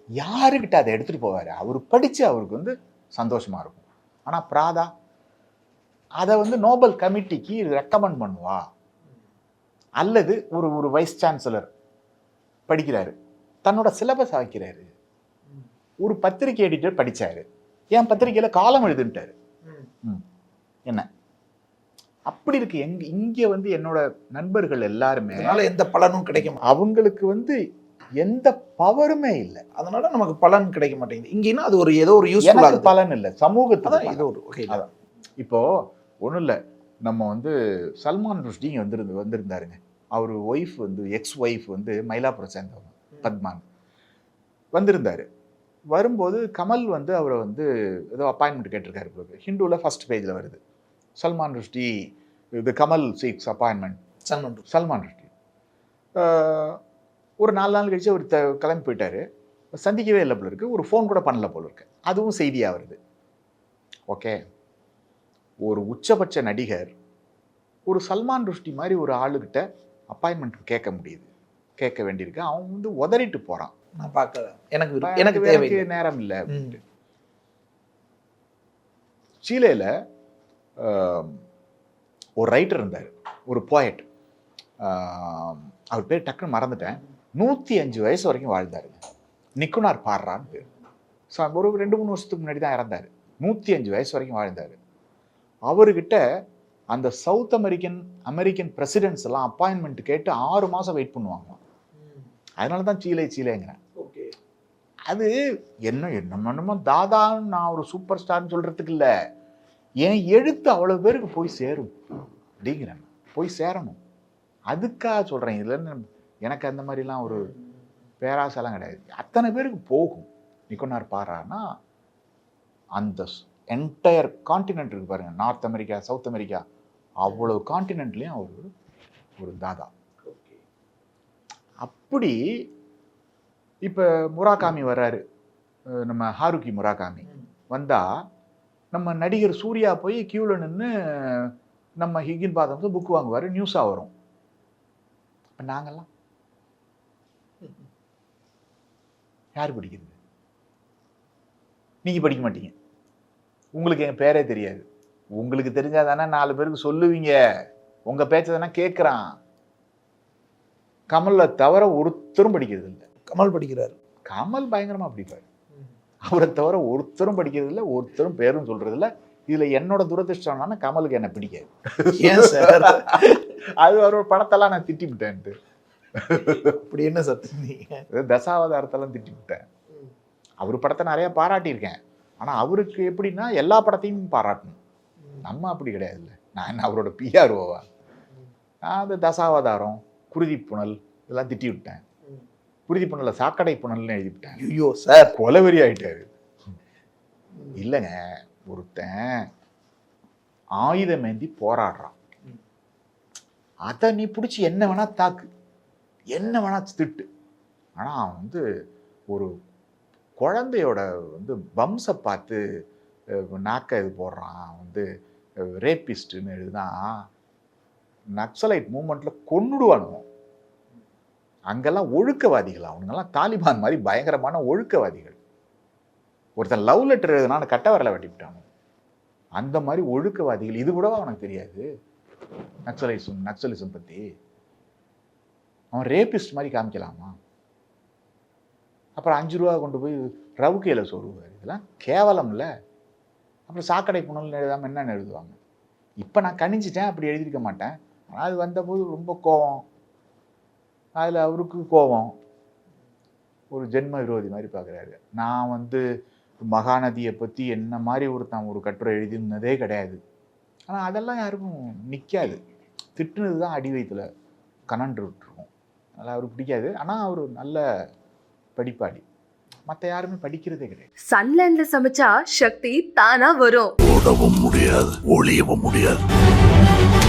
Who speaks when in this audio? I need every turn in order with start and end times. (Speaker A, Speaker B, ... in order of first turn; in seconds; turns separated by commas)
Speaker A: 0.2-4.9, Speaker A: 6.2-8.6, Speaker A: 10.0-11.7, Speaker A: 12.7-14.9, Speaker A: 16.0-19.3, Speaker A: 22.3-25.6, Speaker B: 25.3-26.6, Speaker A: 26.4-27.6, Speaker A: 28.2-29.6, Speaker B: 29.8-32.9, Speaker A: 32.4-43.6, Speaker B: 33.8-34.8, Speaker A: 44.7-45.3, Speaker A: 45.9-50.6, Speaker A: 51.2-54.0, Speaker B: 54.3-54.6, Speaker A: 54.7-55.3, Speaker A: 56.2-56.8, Speaker A: 57.4-63.0, Speaker A: 64.1-64.4, Speaker A: 65.6-66.9, Speaker A: 67.9-71.3, Speaker A: 71.8-73.7, Speaker B: 74.0-75.8, Speaker A: 75.0-76.8, Speaker B: 76.5-76.8, Speaker A: 79.4-79.9, Speaker A: 80.8-81.4, Speaker A: 82.4-84.1, Speaker A: 84.8-89.0, Speaker A: 89.6-90.7, Speaker A: 91.3-94.8, Speaker A: 95.7-96.2, Speaker A: 96.9-101.6, Speaker B: 102.0-102.3, Speaker A: 102.6-103.8, Speaker B: 104.0-104.3, Speaker A: 105.1-105.3, Speaker A: 105.9-109.1, Speaker A: 110.0-112.0, Speaker A: 112.6-114.0, Speaker A: 114.7-117.5, Speaker A: 118.2-121.6, Speaker A: 123.0-126.6, Speaker A: 127.2-128.7, Speaker A: 129.4-129.9, Speaker B: 130.2-130.6, Speaker A: 131.8-132.4, Speaker A: 133.8-135.2, Speaker A: 135.9-138.1, Speaker A: 138.9-144.1, Speaker A: 145.6-146.1, Speaker A: 149.6-150.2, Speaker A: 152.0-152.7, Speaker A: 153.7-154.8, Speaker A: 155.4-157.4, Speaker A: 158.1-159.3, Speaker A: 161.1-163.0, Speaker B: 163.2-163.9, Speaker A: 164.3-165.4, Speaker A: 166.2-175.6, Speaker B: 172.1-173.4, Speaker A: 176.1-176.8, Speaker B: 176.6-178.0, Speaker A: 178.1-179.6, Speaker A: 180.6-184.8, Speaker A: 185.4-187.8, Speaker A: 188.8-192.0, Speaker A: 192.9-194.6, Speaker B: 194.6-195.4, Speaker A: 195.3-196.3, Speaker A: 197.7-198.2, Speaker A: 198.7-199.5, Speaker A: 200.8-202.2, Speaker A: 203.8-205.5, Speaker A: 206.3-207.3, Speaker A: 208.0-208.6, Speaker A: 210.4-212.6, Speaker A: 213.3-215.0, Speaker A: 215.6-217.2, Speaker A: 218.4-220.3, Speaker A: 221.7-225.4, Speaker A: 226.6-228.6, Speaker A: 229.6-231.8, Speaker A: 232.8-234.2, Speaker A: 235.9-237.3, Speaker A: 239.2-242.7, Speaker A: 243.7-245.6, Speaker A: 246.2-249.8, Speaker A: 251.2-252.3, Speaker A: 253.7-256.0, Speaker A: 256.6-260.2, Speaker A: 260.9-262.6, Speaker A: 263.1-264.3, Speaker A: 264.9-267.8, Speaker A: 268.8-269.2, Speaker A: 269.9-271.1, Speaker C: 271.3-273.9, Speaker D: 274.0-276.2